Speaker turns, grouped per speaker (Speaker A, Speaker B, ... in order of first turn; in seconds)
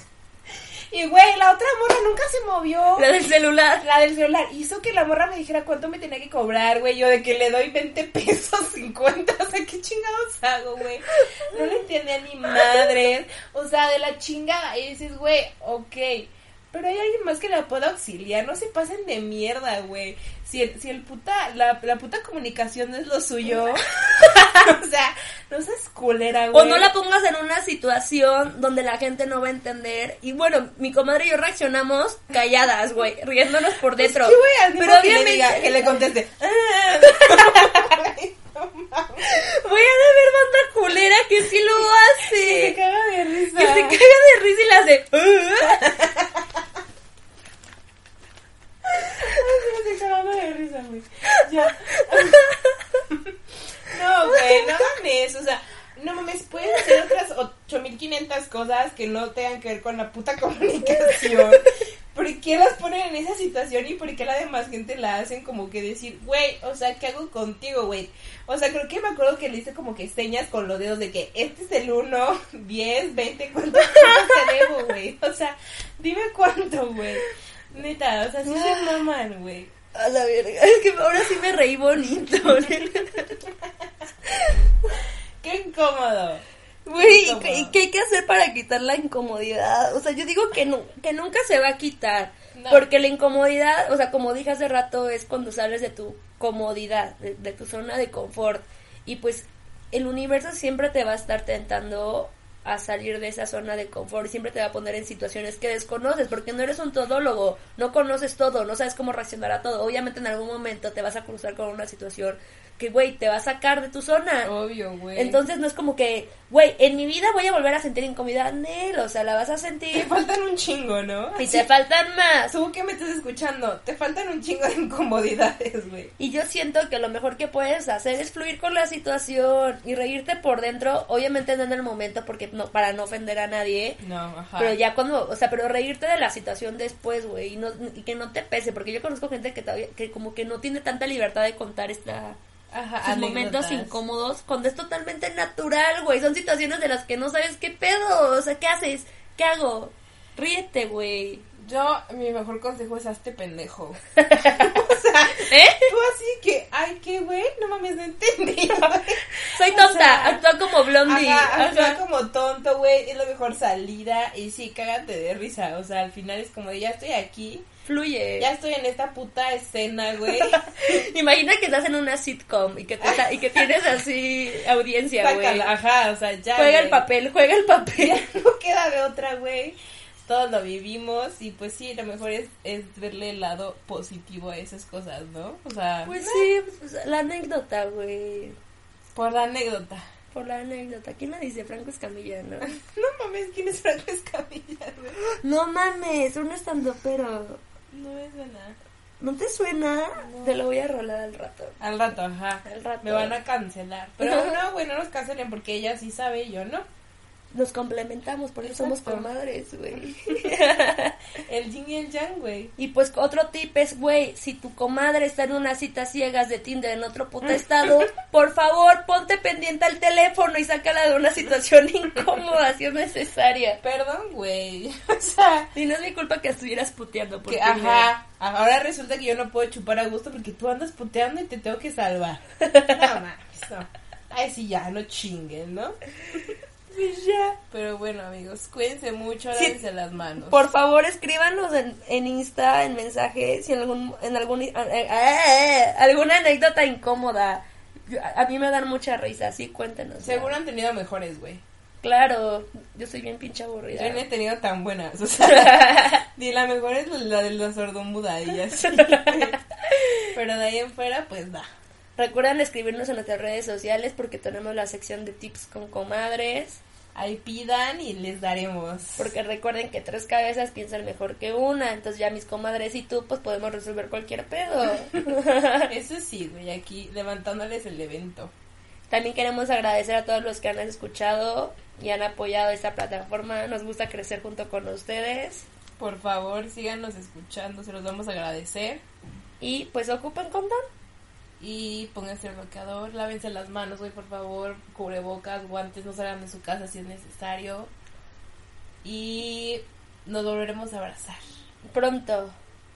Speaker A: 0.9-3.1, 3.8-26.9, 34.0-39.3, 42.2-44.0, 45.8-46.4, 48.9-52.5, 53.1-53.3, 53.9-79.7, 85.4-87.8, 92.5-92.9, 114.4-115.4, 119.9-121.7, 122.5-126.1, 134.0-134.8, 142.7-144.0, 151.6-160.4, 161.0-167.7, 168.4-171.0, 175.2-177.1, 178.0-186.5, 189.2-190.1, 192.8-195.2, 197.9-198.8, 200.2-200.6, 201.8-206.9, 208.6-209.3, 210.1-210.4, 211.4-212.7, 223.8-225.7, 227.5-236.0, 236.9-240.6, 250.2-251.6, 253.9-259.6, 260.3-261.7, 267.1-269.3, 275.9-278.5, 286.0-289.0, 291.6-297.9, 299.0-301.4
Speaker B: 3.0-3.9, 26.5-35.9, 39.2-42.8, 43.5-46.0, 52.0-52.8, 54.4-54.6, 73.9-74.6, 78.5-79.0, 79.9-83.5, 84.3-84.6, 86.9-114.5, 115.2-120.1, 121.4-122.5, 126.2-134.0, 134.6-142.4, 143.0-151.5, 154.3-154.7, 155.4-155.9, 159.5-162.0, 167.9-168.5, 170.3-175.7, 176.6-178.2, 186.1-188.6, 190.3-192.8, 195.3-197.6, 199.2-201.8, 202.7-203.4, 204.2-204.6, 207.5-211.2, 212.8-223.8, 225.7-228.1, 232.6-233.2, 240.4-250.6, 252.0-254.2, 255.4-256.2, 258.7-260.3, 262.2-266.8, 269.2-275.9, 279.1-285.7, 289.6-290.9, 301.9-302.6